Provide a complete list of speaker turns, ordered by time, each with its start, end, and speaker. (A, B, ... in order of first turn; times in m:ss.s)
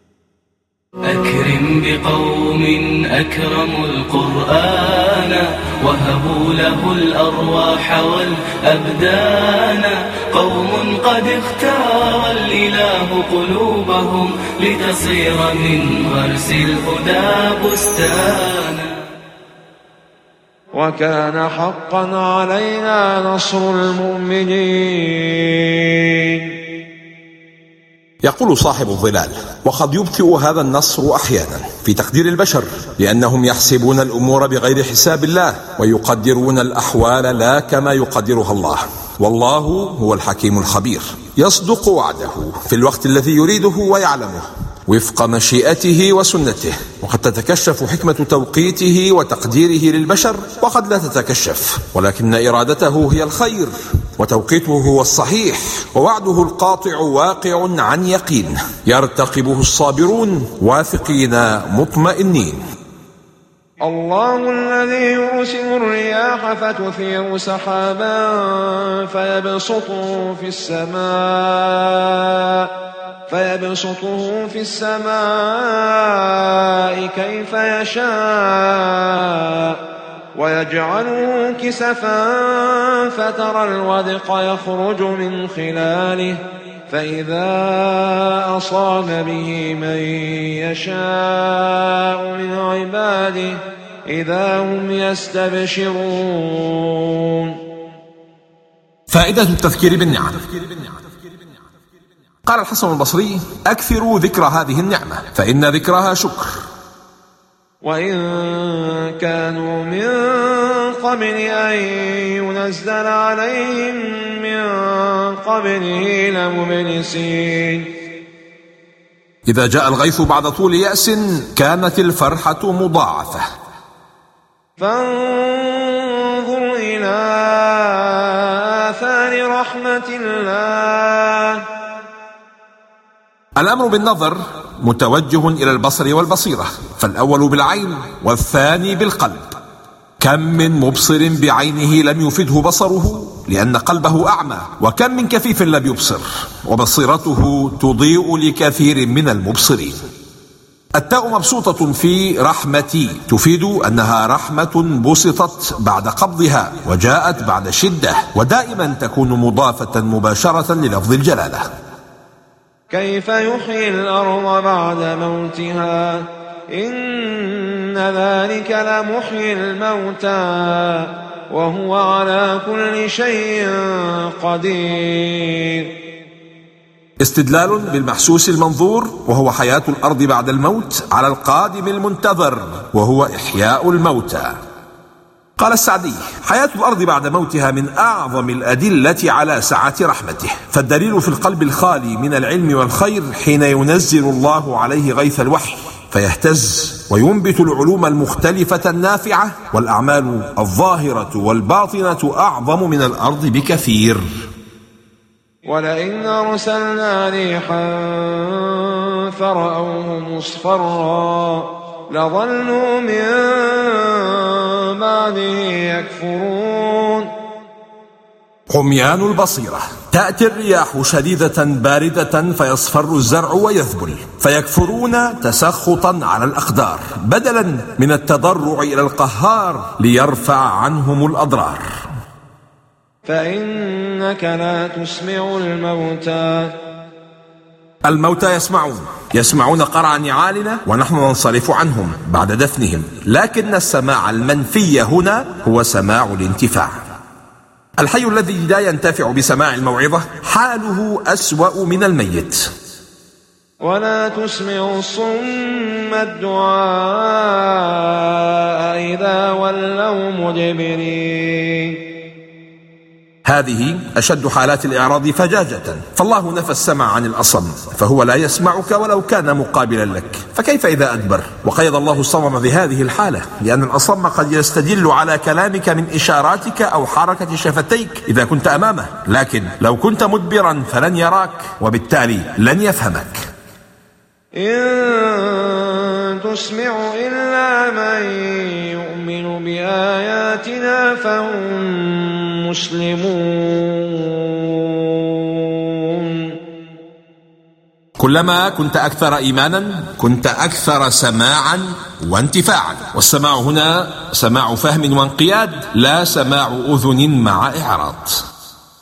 0:01.0-0:18.9 A
0:20.7-0:26.5 B
0:28.2-1:02.6 C
1:03.8-1:12.7 B
1:13.3-1:19.8 B
1:20.3-1:37.6 B
1:39.1-1:40.9 C
1:42.4-1:46.6 C
1:47.8-1:57.9 B
1:59.4-2:03.5 C
2:04.8-2:11.6 B
2:13.6-2:19.5 C
2:20.2-2:30.0 C
2:30.9-2:41.6 C
2:42.9-2:55.9 B
2:57.2-3:04.6 C
3:05.6-3:24.4 C
3:25.6-3:37.3 B
3:38.7-3:51.9 C
3:53.2-3:56.8 B
3:58.0-4:06.9 C
4:08.0-4:12.7 C
4:13.8-4:22.0 B
4:23.4-4:43.4 C
4:44.6-4:56.5 B
4:58.2-5:08.4 C